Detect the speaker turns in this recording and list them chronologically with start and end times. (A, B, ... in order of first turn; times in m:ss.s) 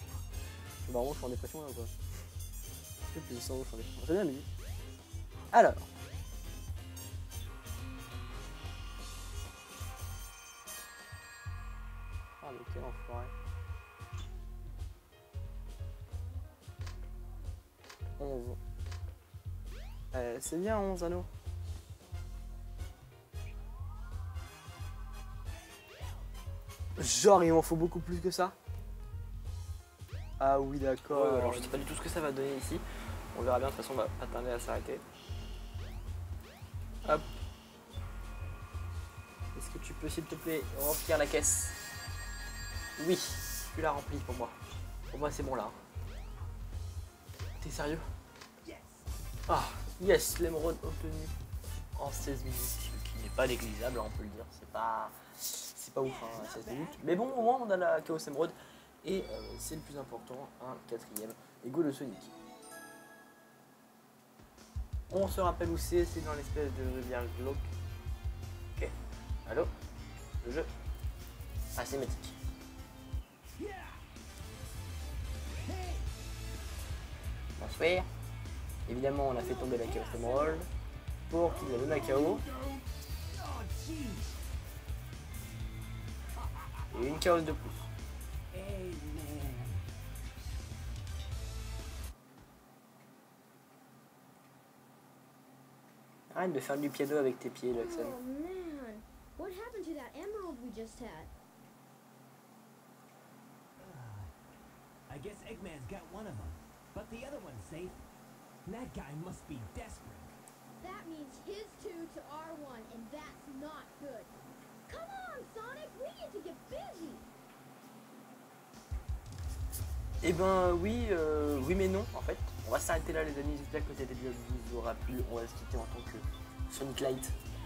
0:00.9-0:01.9 A
0:03.1-0:04.5 A
0:05.5-0:05.9 A
0:12.4-0:13.3 A
0:18.2-0:18.6 A
0:20.1-0:21.3 A
0:27.0-0:28.6 A
0:30.4-0:32.8 A
0:31.1-0:31.9 B
0:33.3-0:35.0 A
0:39.5-0:41.8 A
0:43.0-0:44.6 A
0:45.1-0:45.8 A
0:47.6-0:48.0 A
0:48.6-0:49.1 B
0:49.5-0:51.3 A
0:52.0-1:02.3 A
0:56.0-0:57.5 B
1:05.1-1:07.7 A
1:09.5-1:09.7 A
1:10.4-1:10.7 A
1:11.8-1:12.3 A
1:13.6-1:14.0 B
1:15.5-1:16.1 B
1:17.6-1:18.1 A
1:18.9-1:20.7 A
1:19.2-1:20.7 B
1:21.3-1:22.4 A
1:21.4-1:24.4 B
1:26.4-1:27.2 B
1:26.9-1:27.9 A
1:28.5-1:29.9 B
1:36.3-1:38.2 A
1:37.7-1:41.3 C
1:43.8-1:44.3 B
1:45.1-1:48.0 B
1:48.7-1:50.4 B
1:50.8-1:54.3 C
1:54.9-1:57.2 C
2:00.2-2:07.4 A